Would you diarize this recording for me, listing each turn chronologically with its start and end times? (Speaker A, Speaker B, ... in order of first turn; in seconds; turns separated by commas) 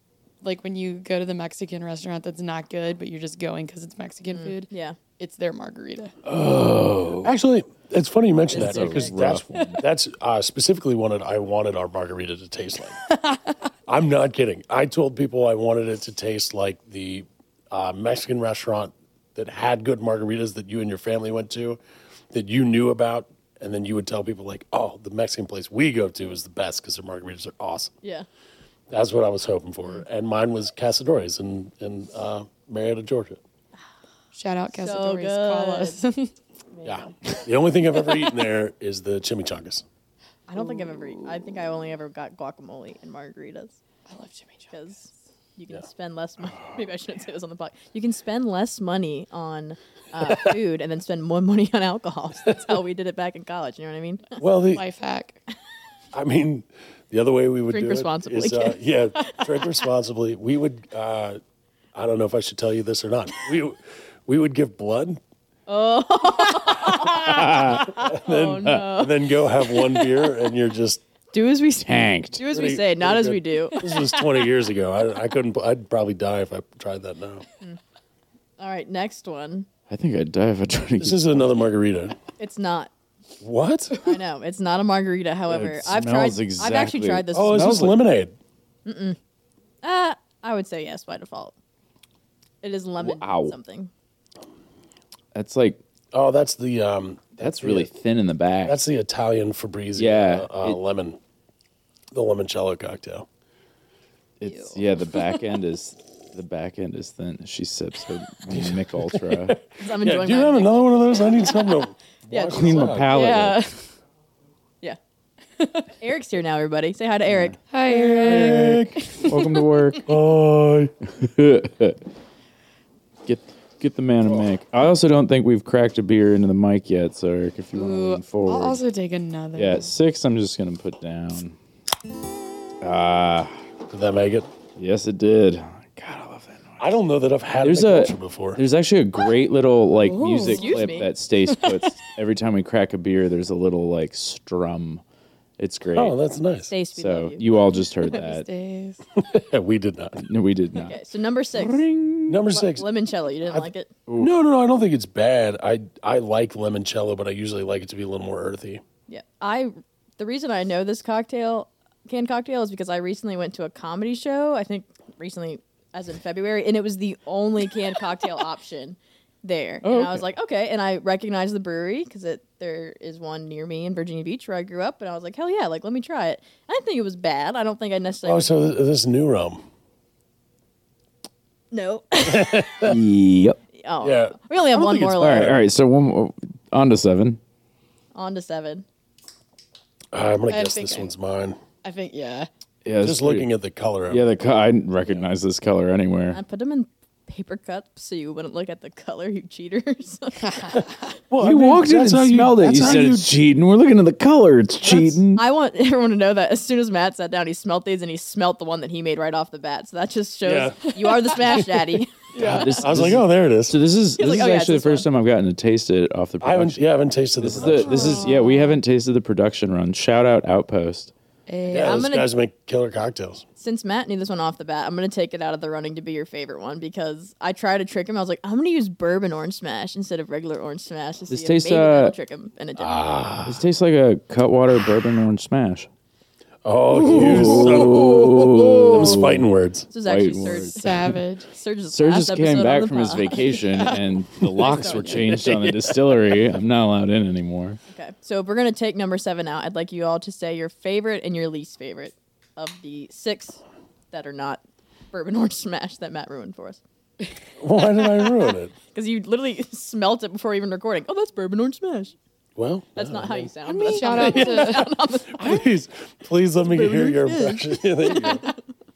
Speaker A: 0.4-6.1, Speaker B: 4.3-5.0, Speaker C: 6.2-7.3, Speaker D: 7.2-13.0, Speaker B: 8.5-9.2, Speaker C: 8.5-9.8, Speaker A: 13.1-13.6, Speaker D: 13.9-21.8, Speaker D: 22.3-27.9, Speaker D: 28.9-33.4, Speaker A: 34.3-36.3, Speaker B: 34.7-36.0, Speaker B: 36.7-37.0, Speaker D: 36.8-39.8, Speaker B: 40.5-43.8, Speaker A: 44.1-44.7, Speaker B: 44.7-54.4, Speaker D: 54.4-54.8, Speaker A: 54.7-55.4, Speaker D: 56.1-61.4, Speaker B: 57.7-59.4, Speaker D: 61.9-65.2, Speaker B: 65.7-70.1, Speaker C: 67.2-68.0, Speaker D: 67.8-71.0, Speaker B: 71.3-73.9, Speaker C: 71.8-72.4, Speaker D: 72.5-77.4, Speaker B: 78.6-79.7, Speaker C: 79.9-81.5, Speaker D: 81.0-82.2, Speaker B: 82.4-82.9, Speaker D: 83.4-84.1, Speaker B: 84.0-87.7, Speaker C: 85.5-88.0, Speaker D: 87.3-88.3, Speaker B: 88.8-89.2, Speaker B: 89.8-91.5, Speaker B: 92.6-93.9, Speaker C: 93.0-93.5, Speaker C: 95.3-95.8, Speaker D: 96.1-97.9, Speaker C: 97.4-98.8, Speaker D: 98.6-101.2, Speaker C: 100.0-100.8, Speaker D: 102.1-103.3, Speaker C: 104.4-109.6, Speaker A: 104.4-105.4, Speaker D: 108.5-113.1, Speaker B: 109.8-111.2, Speaker B: 112.3-112.9, Speaker C: 112.5-113.6, Speaker A: 113.1-113.8, Speaker B: 115.6-117.6, Speaker A: 117.7-120.0, Speaker D: 117.9-119.1, Speaker C: 119.2-120.0, Speaker D: 120.0-120.9, Speaker C: 121.2-122.0, Speaker C: 123.2-128.8, Speaker A: 127.7-129.9, Speaker C: 129.5-131.6, Speaker C: 132.8-133.6, Speaker D: 133.9-134.5, Speaker C: 134.8-136.9, Speaker D: 136.8-138.6, Speaker C: 137.6-145.0, Speaker A: 140.0-140.9, Speaker B: 140.4-141.1, Speaker A: 141.5-141.9, Speaker C: 145.6-146.1, Speaker D: 145.9-146.7, Speaker B: 146.7-147.4, Speaker C: 146.9-148.4, Speaker A: 147.7-149.0, Speaker D: 149.2-150.2, Speaker C: 150.2-151.0, Speaker B: 150.7-151.8, Speaker C: 151.5-152.4, Speaker D: 152.3-152.9, Speaker B: 152.5-153.9, Speaker D: 153.5-158.8, Speaker C: 154.1-154.3, Speaker B: 159.1-178.5, Speaker C: 169.8-170.2, Speaker D: 178.2-179.6, Speaker B: 181.7-182.9, Speaker D: 182.2-183.0, Speaker C: 182.8-183.6, Speaker B: 183.7-185.6, Speaker D: 184.0-185.6, Speaker C: 185.2-187.4, Speaker B: 188.1-188.8, Speaker D: 190.1-191.6, Speaker A: 190.5-191.1, Speaker A: 191.8-192.5, Speaker C: 192.8-193.5, Speaker D: 193.0-194.2, Speaker C: 194.1-196.4, Speaker B: 196.3-200.8, Speaker A: 200.4-200.7, Speaker D: 201.3-203.4, Speaker C: 201.4-205.4, Speaker B: 205.2-212.9, Speaker D: 210.4-210.9, Speaker D: 212.3-213.8, Speaker C: 212.3-216.9, Speaker B: 214.2-215.1, Speaker D: 216.4-218.2, Speaker C: 217.4-221.1, Speaker A: 217.6-218.8, Speaker A: 221.5-222.0, Speaker D: 221.7-223.4, Speaker B: 221.8-222.3, Speaker B: 223.6-233.0, Speaker C: 231.3-232.1, Speaker D: 232.8-233.6, Speaker C: 233.4-235.9, Speaker D: 236.6-239.9, Speaker C: 237.0-239.5, Speaker A: 237.0-237.8, Speaker B: 239.9-243.5, Speaker C: 240.0-241.1, Speaker A: 240.5-241.5, Speaker C: 241.9-247.8, Speaker A: 243.3-244.0, Speaker A: 244.6-245.2, Speaker B: 244.7-245.2, Speaker B: 247.9-256.8, Speaker D: 257.6-258.7, Speaker B: 258.9-262.1, Speaker D: 262.6-268.4, Speaker B: 262.9-265.6, Speaker A: 263.7-264.9, Speaker B: 266.6-268.5